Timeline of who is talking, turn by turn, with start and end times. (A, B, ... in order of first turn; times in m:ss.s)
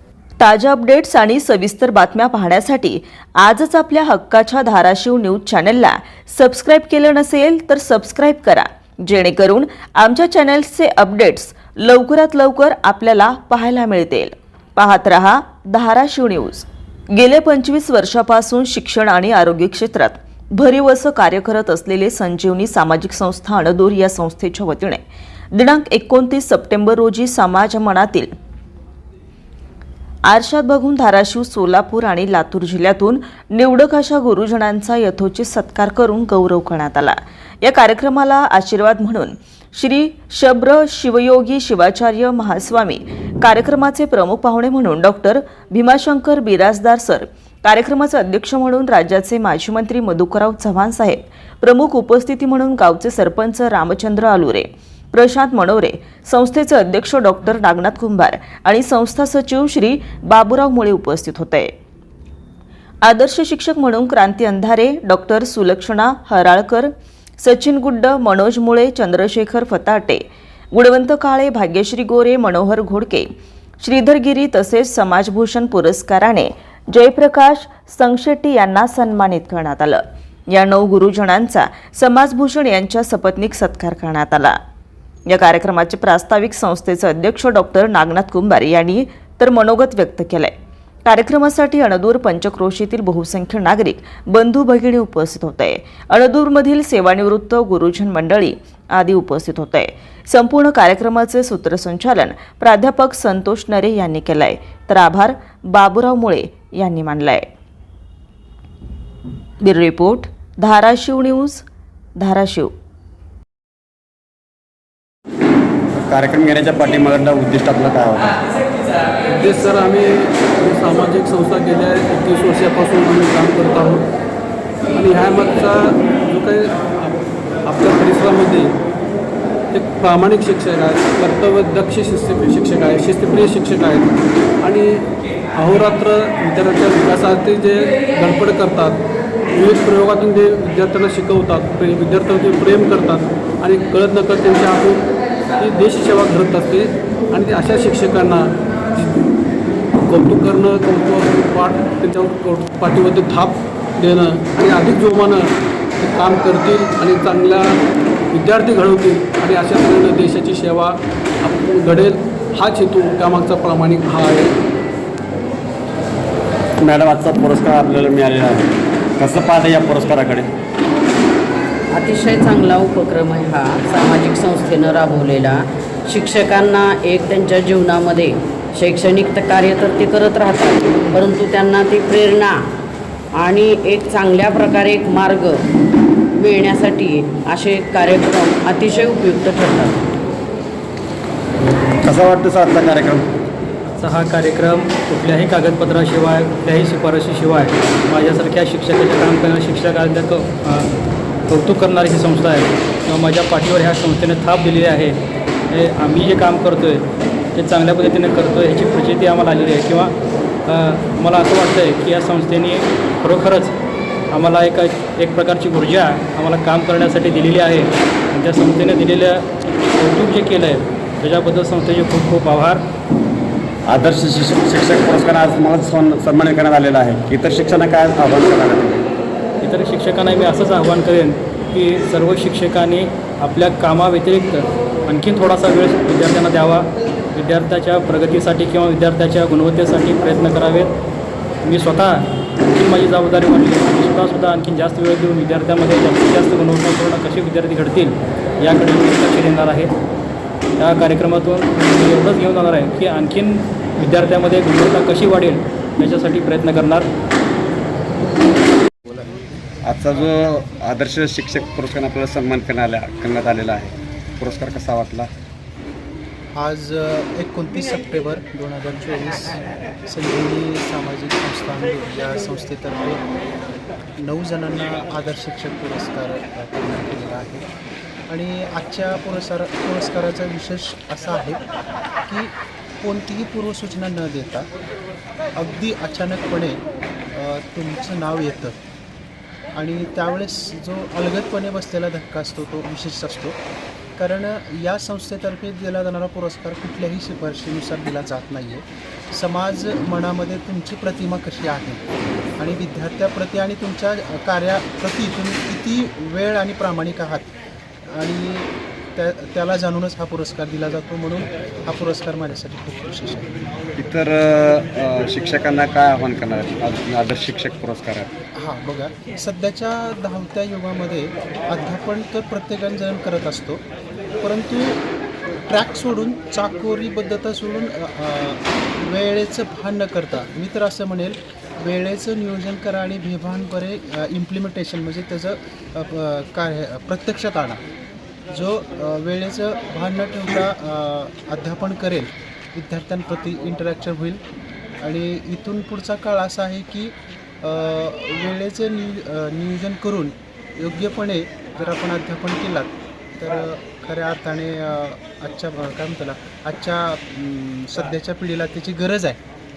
0:00.4-0:25.0 A
0:25.5-0:28.3 A
0:30.3-1:01.7 A
1:03.1-1:06.9 A
1:07.4-1:10.2 A
1:10.7-1:13.3 A
1:13.8-1:20.0 A
1:20.5-1:24.6 A
1:25.3-1:30.5 A
1:31.1-1:47.5 A
1:49.6-1:51.6 A
1:52.2-1:52.7 A
1:56.0-1:58.4 B
1:59.3-2:04.0 C
2:04.9-2:08.7 C
2:09.7-2:15.0 C
2:15.6-2:25.1 C
2:25.6-2:29.2 C
2:30.1-2:37.7 C
2:38.3-2:44.5 C
2:46.8-2:50.5 B
2:51.9-3:02.6 D
3:03.3-3:05.7 D
3:06.4-3:10.0 D
3:12.0-3:13.3 B
3:13.9-3:20.9 E
3:21.5-3:25.2 E
3:25.7-3:27.0 E
3:27.6-3:30.1 E
3:30.7-3:33.7 E
3:34.3-3:39.5 E
3:40.0-3:42.8 E
3:43.9-3:49.0 B
3:49.6-4:00.9 E
4:01.6-4:09.9 E
4:10.8-4:17.1 E
4:19.8-4:25.3 B
4:26.6-4:33.2 F
4:34.2-4:37.7 F
4:38.3-4:41.6 F
4:42.3-4:44.7 F
4:45.6-4:46.8 F
4:47.4-4:48.8 F
4:49.8-4:53.6 F
4:54.2-5:02.0 F
5:02.6-5:07.5 F
5:08.1-5:13.6 F
5:14.0-5:18.3 B
5:18.6-5:23.8 F
5:24.4-5:25.0 F
5:25.7-5:37.8 F
5:38.5-5:44.4 F
5:45.0-5:59.4 F